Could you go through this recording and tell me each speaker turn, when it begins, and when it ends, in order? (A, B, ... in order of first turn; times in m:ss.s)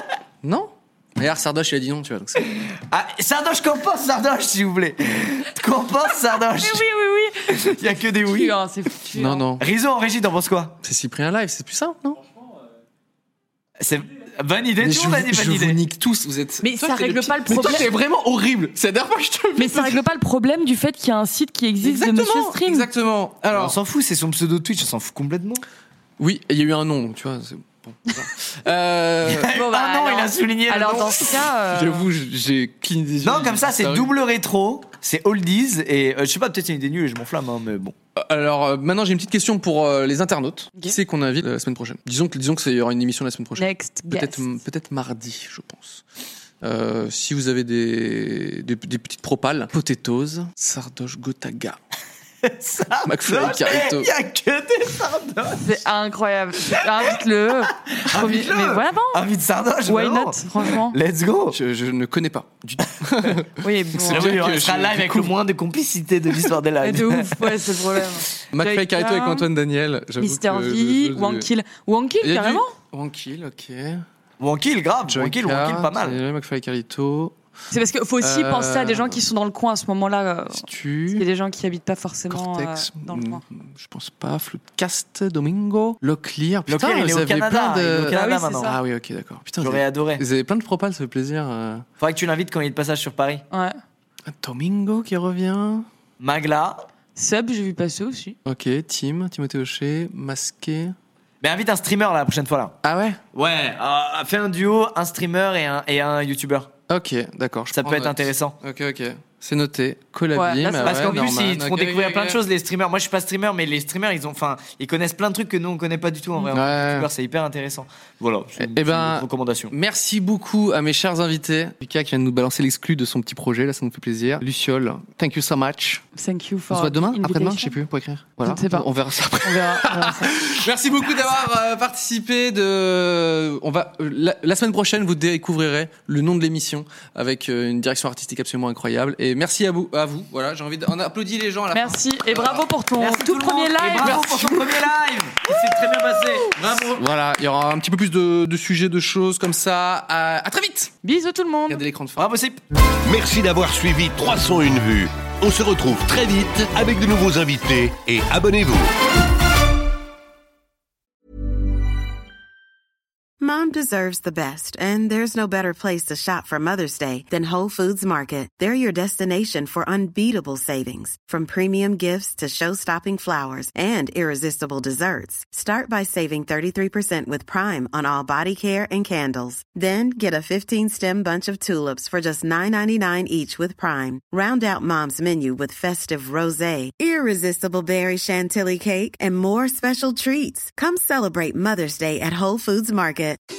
0:00.4-0:02.4 A
0:02.4-0:06.8 B
0:06.6-0:07.6 C
0:07.5-0:08.5 B
0:08.3-0:09.4 C
0:09.1-0:09.6 A
0:09.6-0:10.8 B
0:10.8-0:12.2 A
0:13.8-0:15.8 B
0:14.8-0:20.1 A
0:16.6-0:17.9 C
0:19.6-0:22.9 C
0:21.8-0:23.8 A
0:23.5-0:25.6 B
0:26.2-0:29.5 A
0:29.3-0:31.3 B
0:29.5-0:32.1 C
0:31.7-0:34.1 A
0:33.2-0:38.0 B
0:38.2-0:46.0 A
0:43.6-0:44.4 C
0:46.6-0:51.8 A
0:52.4-0:55.7 B
0:53.0-0:54.1 A
0:55.6-0:59.2 C
0:56.8-0:57.1 B
0:57.8-1:01.6 B
0:59.8-1:00.9 C
1:01.5-1:05.3 A
1:03.6-1:04.4 C
1:04.1-1:07.6 B
1:06.8-1:09.4 C
1:08.5-1:11.5 A
1:10.2-1:12.7 C
1:12.2-1:14.0 A
1:14.4-1:16.2 B
1:15.1-1:17.4 A
1:17.7-1:23.4 C
1:18.2-1:19.2 A
1:20.5-1:21.3 A
1:22.3-1:31.8 A
1:26.7-1:28.7 B
1:28.1-1:28.8 C
1:29.6-1:30.2 B
1:32.0-1:33.4 B
1:33.5-1:33.8 C
1:34.2-1:35.9 A
1:36.2-1:36.8 B
1:37.2-1:38.4 C
1:38.4-1:41.0 A
1:41.4-1:42.8 B
1:42.8-1:43.2 A
1:43.3-1:46.7 B
1:46.9-1:52.4 A
1:47.7-1:48.6 B
1:50.3-1:51.3 C
1:50.8-1:59.7 B
1:56.5-1:57.1 A
1:58.6-2:06.0 A
2:06.1-2:07.8 C
2:06.7-2:22.6 A
2:08.4-2:08.9 C
2:09.4-2:10.4 C
2:21.7-2:24.8 C
2:23.0-2:27.0 B
2:26.8-2:30.9 A
2:31.0-2:31.8 C
2:31.7-2:32.3 A
2:32.2-2:32.6 B
2:33.0-2:38.9 D
2:43.4-3:13.4 E